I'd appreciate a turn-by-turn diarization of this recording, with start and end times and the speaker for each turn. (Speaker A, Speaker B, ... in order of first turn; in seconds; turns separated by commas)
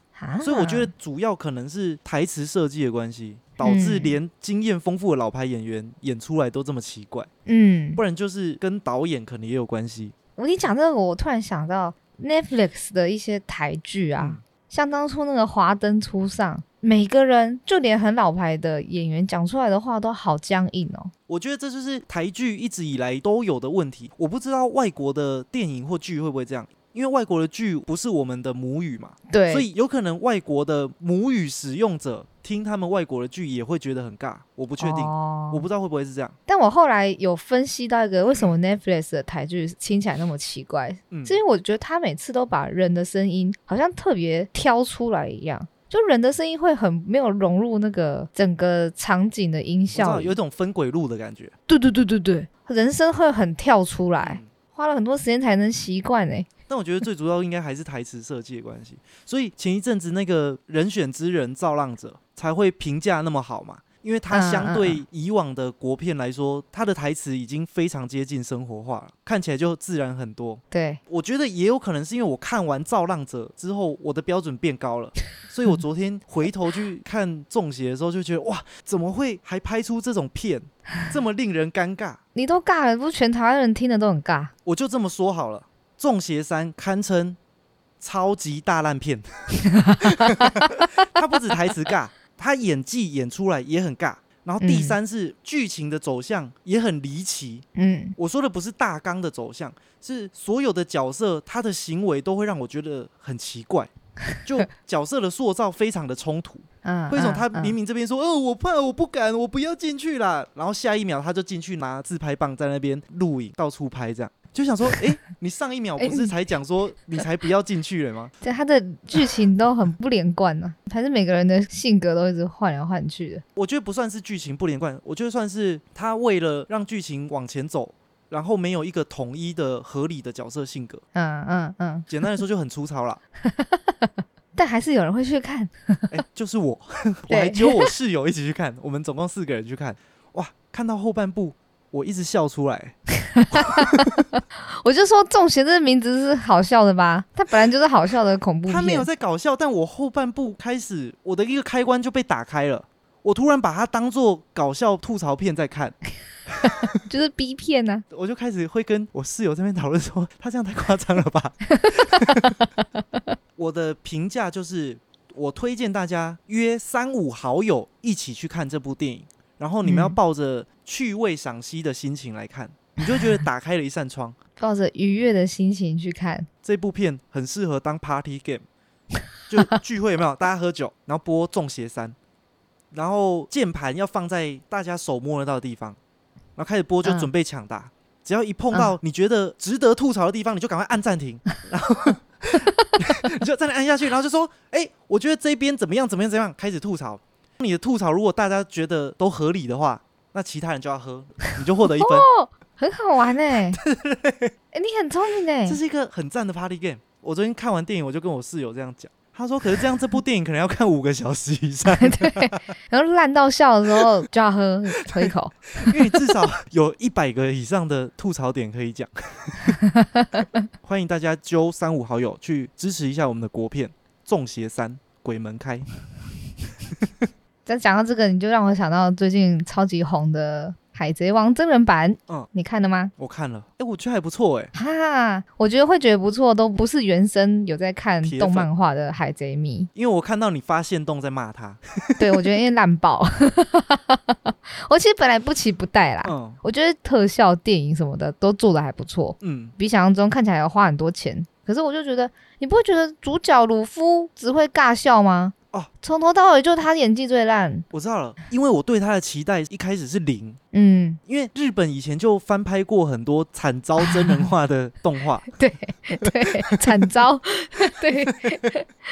Speaker A: 0.1-0.9, Speaker B: 0.4-7.3, Speaker A: 3.6-4.2, Speaker A: 7.5-8.0, Speaker B: 8.0-10.1, Speaker A: 10.3-21.1, Speaker B: 14.2-14.4, Speaker B: 21.3-36.3, Speaker A: 29.3-29.7, Speaker A: 34.8-35.6, Speaker A: 36.5-50.3, Speaker B: 41.1-41.4, Speaker B: 49.9-51.5, Speaker A: 51.7-56.5, Speaker B: 54.2-54.5, Speaker B: 56.7-82.2, Speaker A: 64.3-65.0, Speaker A: 70.7-71.0, Speaker A: 82.3-84.5, Speaker B: 84.6-87.4, Speaker B: 88.0-97.7, Speaker A: 89.7-90.7, Speaker A: 94.6-95.0, Speaker A: 97.8-98.2, Speaker B: 98.2-103.9, Speaker B: 104.4-118.3, Speaker A: 106.8-107.8, Speaker A: 116.0-116.3, Speaker A: 118.4-123.4, Speaker B: 123.5-131.0, Speaker A: 131.1-132.1, Speaker B: 132.1-133.2, Speaker A: 133.4-136.1, Speaker B: 136.1-143.0, Speaker A: 137.3-137.9, Speaker A: 143.3-144.1, Speaker B: 143.5-144.2, Speaker A: 144.7-149.1, Speaker B: 148.7-156.0, Speaker A: 157.0-158.0, Speaker B: 158.1-162.6, Speaker A: 161.8-162.7, Speaker B: 163.6-174.3, Speaker A: 169.8-170.2, Speaker A: 174.6-176.5, Speaker B: 176.6-178.6, Speaker B: 179.5-182.2, Speaker B: 182.9-186.0, Speaker B: 186.6-202.2, Speaker A: 201.9-203.8, Speaker B: 203.5-204.5, Speaker A: 204.7-205.8, Speaker B: 205.7-212.6, Speaker A: 212.0-216.2, Speaker B: 215.1-219.8, Speaker A: 219.7-220.5, Speaker B: 220.8-225.9, Speaker A: 227.7-233.1, Speaker B: 233.2-234.7, Speaker A: 234.7-239.9, Speaker B: 238.2-238.7, Speaker B: 239.9-242.4, Speaker A: 242.2-257.9, Speaker B: 246.2-246.6, Speaker B: 249.4-249.7, Speaker B: 257.9-260.6, Speaker A: 260.7-261.2, Speaker B: 261.2-265.5, Speaker A: 265.5-268.9